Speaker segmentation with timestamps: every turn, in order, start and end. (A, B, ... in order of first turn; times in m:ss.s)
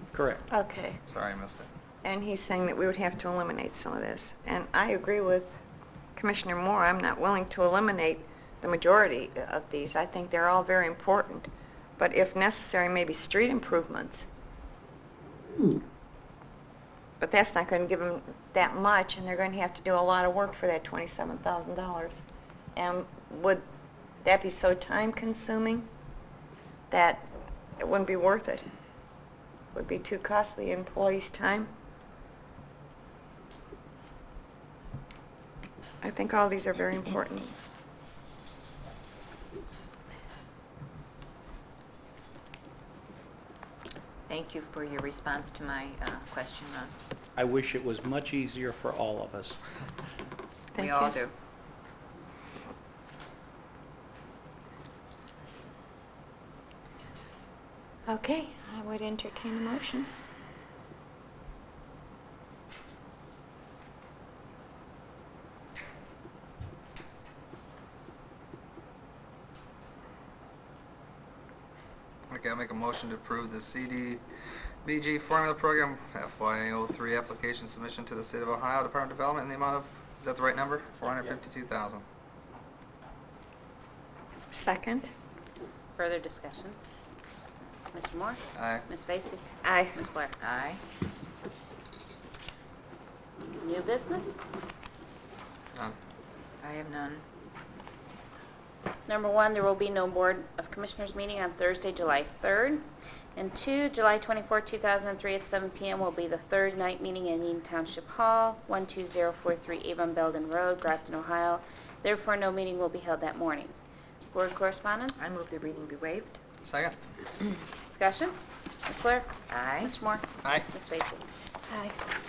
0:00.1-0:00.5 A
0:00.5-0:01.0 B
0:01.1-0:01.7 C
0:02.0-0:05.5 B
0:06.2-0:14.3 B
0:17.2-0:22.2 B
0:22.8-0:23.6 B
0:24.2-0:25.9 B
0:26.9-0:28.7 B
0:29.7-0:31.7 B
0:36.0-0:37.5 B
0:44.3-0:46.9 D
0:47.4-0:49.6 A
0:50.7-0:51.2 B
0:50.8-0:51.3 D
0:58.1-1:00.1 B
1:12.3-1:14.2 C
1:14.8-1:22.0 C
1:24.5-1:25.1 B
1:26.0-1:26.8 E
1:27.9-1:30.4 E
1:28.6-1:28.8 C
1:29.6-1:30.0 B
1:30.4-1:30.8 D
1:33.6-1:34.5 E
1:36.6-1:37.2 D
1:39.1-1:42.8 E
1:43.4-1:53.7 E
1:54.3-1:55.3 E
1:55.2-1:56.4 D
1:56.6-1:57.0 C
1:57.9-2:01.9 E
1:59.5-2:00.0 D